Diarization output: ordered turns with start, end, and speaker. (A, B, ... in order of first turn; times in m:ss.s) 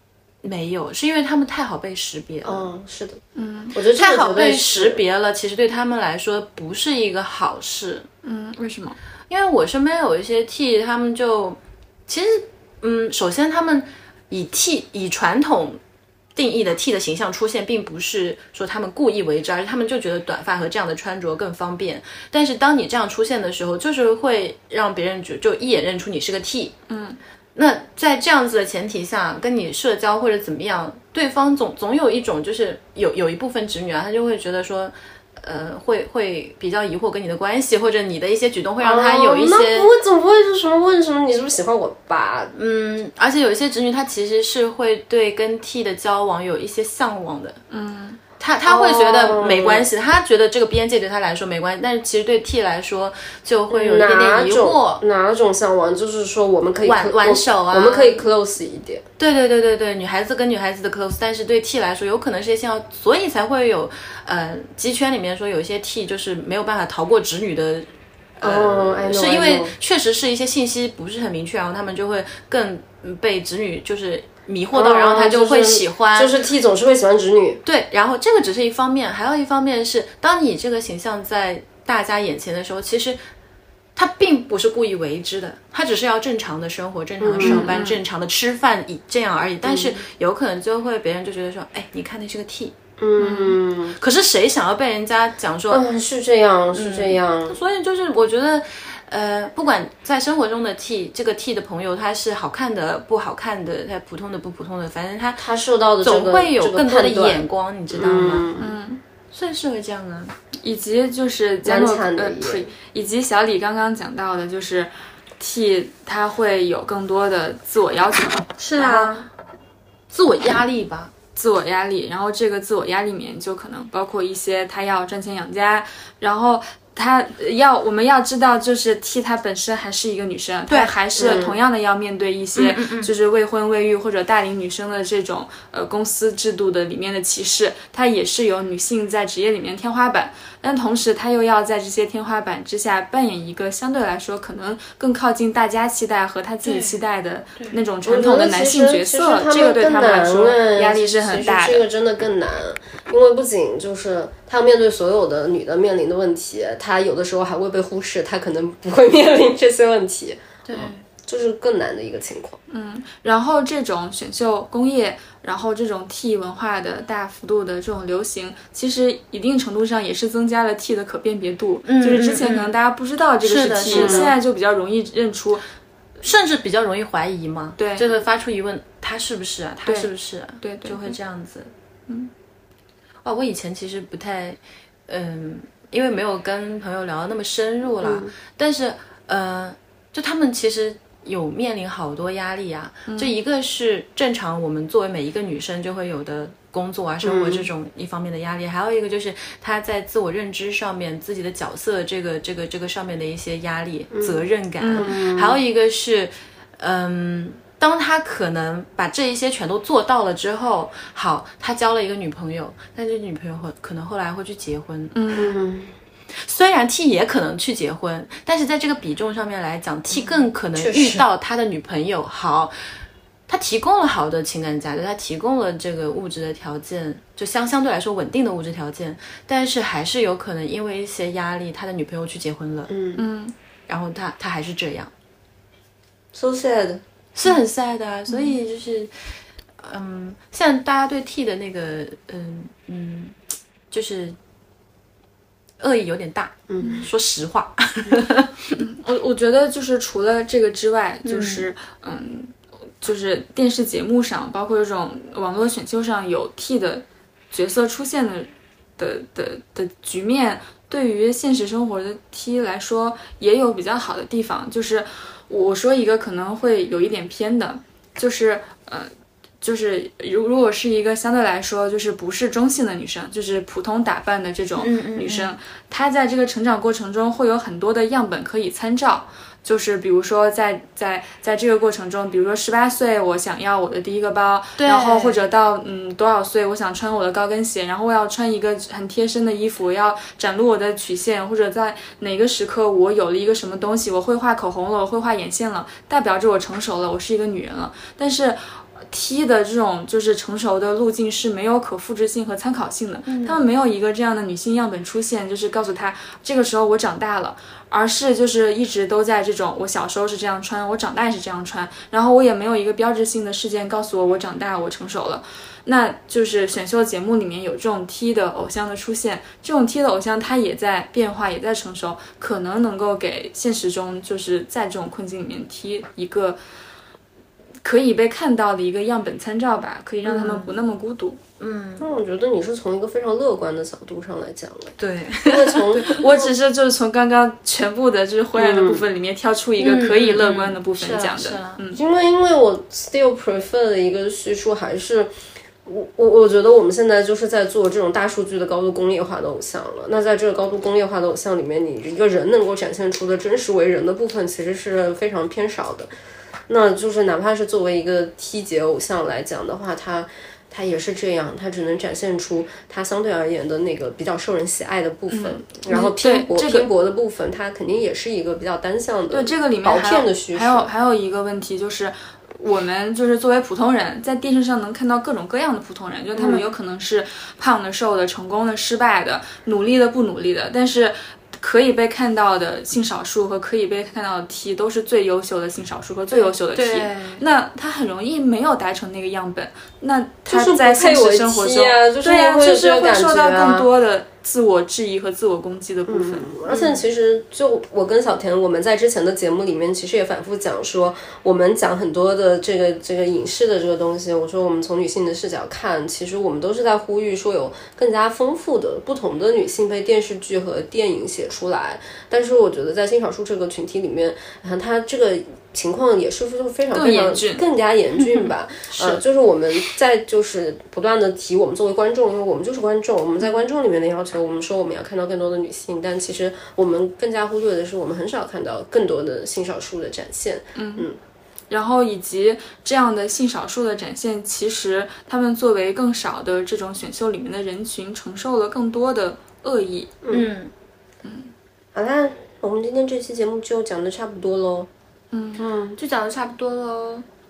0:00.4-0:02.7 A
0:02.4-0:03.2 B
0:03.4-0:03.8 C
0:03.7-0:05.0 B
0:03.9-0:08.1 A
0:08.2-0:09.0 C
0:09.3-0:15.8 A
0:16.4-0:26.8 A
0:26.9-0:27.2 C
0:27.6-0:39.9 A
0:38.8-0:42.5 B
0:42.5-0:47.6 A
0:47.7-0:48.2 C
0:48.4-0:55.0 A
0:48.6-0:49.9 B
0:53.7-0:59.0 B
0:56.8-0:58.3 A
0:59.2-1:07.9 A
1:08.4-1:16.4 A
1:08.4-1:09.7 B
1:14.7-1:17.6 B
1:17.6-1:23.2 A
1:24.0-1:32.8 A
1:27.2-1:27.7 B
1:27.4-1:28.0 C
1:29.6-1:30.0 B
1:33.0-1:34.0 B
1:34.0-1:35.8 A
1:35.7-1:37.6 B
1:36.7-1:45.5 A
1:45.4-1:48.7 B
1:46.0-1:48.4 A
1:48.6-1:49.0 C
1:49.3-1:50.4 A
1:50.6-1:59.2 C
1:51.6-1:52.7 B
1:58.6-1:59.2 A
2:00.1-2:01.1 A
2:01.4-2:31.9 C
2:10.7-2:11.4 A
2:11.2-2:11.6 B
2:12.6-2:13.1 A
2:26.6-2:27.0 A
2:28.0-2:42.6 B
2:40.6-2:41.0 A
2:42.7-2:55.6 C
2:51.9-2:52.7 A
2:53.4-2:54.3 A
2:53.9-2:54.3 B
2:56.2-3:01.7 A
2:57.8-2:58.1 C
2:59.8-3:01.2 C
3:03.2-3:35.2 A
3:08.0-3:08.4 B
3:13.1-3:13.4 C
3:17.2-3:17.7 B
3:24.1-3:24.4 B
3:24.8-3:25.1 C
3:24.9-3:25.6 B
3:35.1-3:35.5 C
3:35.3-3:35.9 B
3:36.4-3:42.7 A
3:40.2-3:41.2 B
3:43.5-3:52.9 A
3:52.9-3:53.2 B
3:53.2-3:53.6 C
3:53.9-3:55.1 A
3:56.3-3:57.0 B
3:57.4-3:59.1 A
3:59.8-4:03.4 A
4:03.9-4:04.4 A
4:05.8-4:08.8 A
4:06.7-4:07.1 B
4:08.8-5:26.6 C
4:11.2-4:11.7 A
4:34.8-4:35.5 A
4:44.8-4:45.4 A
5:03.3-5:03.6 A
5:27.8-5:31.4 C
5:30.2-5:30.8 A
5:31.6-5:32.1 A
5:32.0-5:36.3 B
5:35.0-5:36.2 A
5:36.0-5:42.0 C
5:38.6-5:39.0 B
5:39.8-5:41.8 A
5:41.9-5:45.3 B
5:45.8-5:56.1 B
5:56.7-6:10.9 B
6:05.3-6:06.9 C
6:09.3-6:36.5 C
6:16.4-6:16.6 B
6:26.7-6:27.4 A
6:30.5-6:33.9 B
6:36.1-7:11.2 B
6:36.7-6:37.0 A
6:56.9-6:57.6 C
6:58.9-6:59.2 A
7:10.8-7:11.1 C
7:11.7-7:20.1 C
7:20.2-7:20.5 B
7:20.3-7:20.7 A
7:21.2-7:21.5 C
7:21.9-7:24.9 B
7:25.3-7:27.2 C
7:25.6-7:26.0 B